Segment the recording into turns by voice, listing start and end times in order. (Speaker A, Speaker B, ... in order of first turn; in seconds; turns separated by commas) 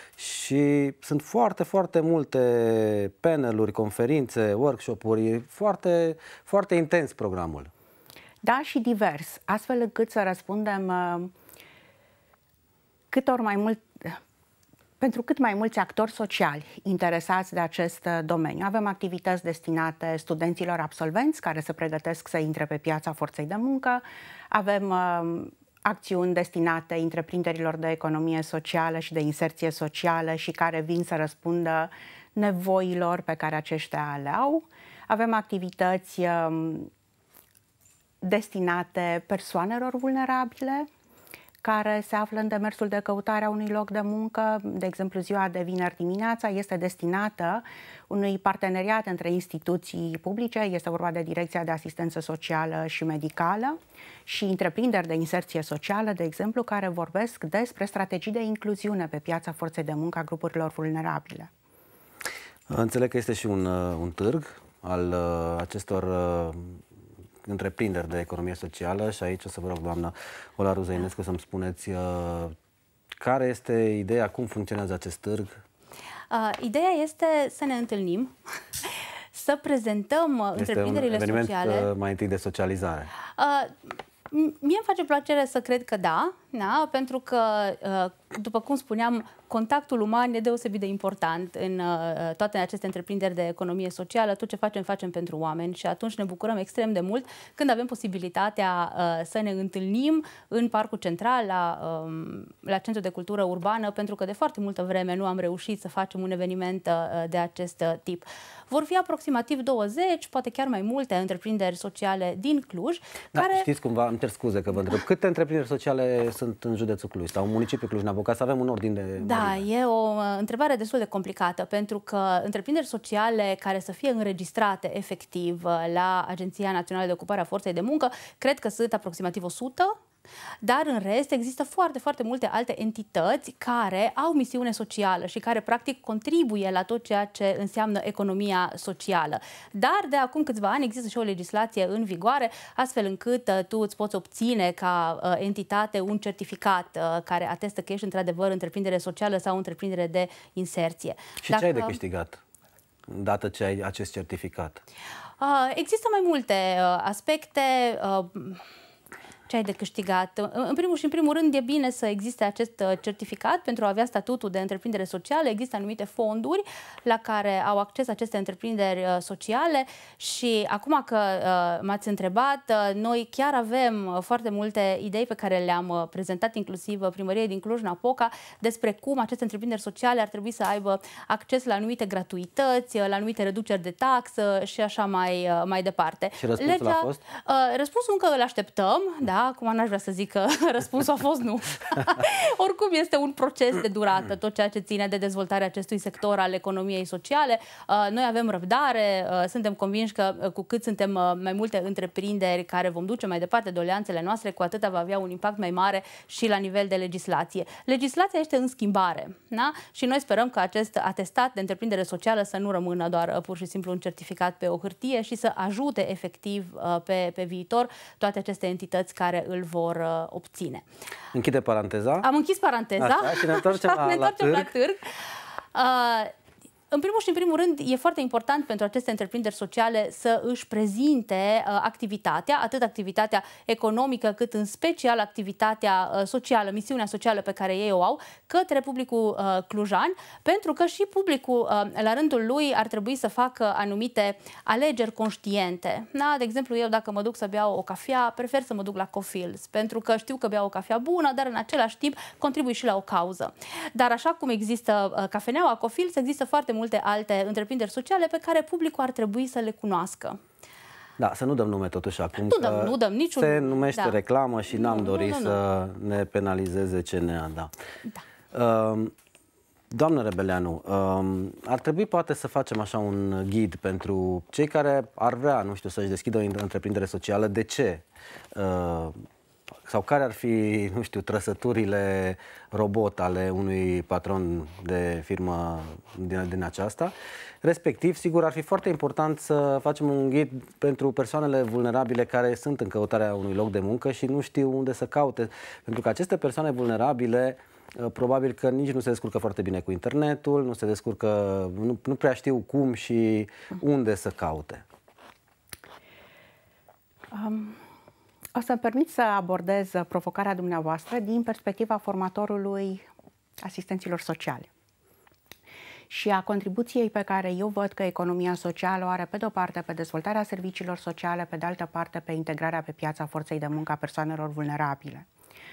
Speaker A: 0.2-7.7, Speaker B: 8.4-11.3, Speaker B: 13.1-14.2, Speaker B: 15.0-36.9, Speaker B: 38.2-40.9, Speaker B: 41.6-61.5, Speaker A: 62.7-66.8, Speaker A: 67.5-72.6, Speaker A: 73.2-75.6, Speaker C: 76.3-78.3, Speaker C: 79.3-81.9, Speaker A: 80.6-83.1, Speaker C: 83.4-113.7, Speaker A: 113.3-119.6, Speaker C: 119.2-130.0, Speaker C: 130.6-152.0, Speaker A: 151.4-152.4, Speaker A: 153.1-154.8, Speaker C: 155.4-158.6, Speaker C: 159.5-220.8, Speaker A: 186.4-187.2, Speaker A: 221.3-222.3, Speaker C: 222.2-225.0, Speaker A: 223.0-224.7, Speaker C: 225.8-226.3, Speaker C: 226.9-260.4, Speaker A: 261.2-267.7, Speaker C: 262.5-264.2, Speaker C: 264.7-265.6, Speaker A: 268.5-269.1, Speaker A: 269.9-278.0, Speaker A: 278.6-279.2, Speaker A: 279.9-304.8, Speaker B: 307.3-307.8, Speaker B: 308.6-313.1, Speaker B: 313.6-314.7, Speaker B: 316.1-325.3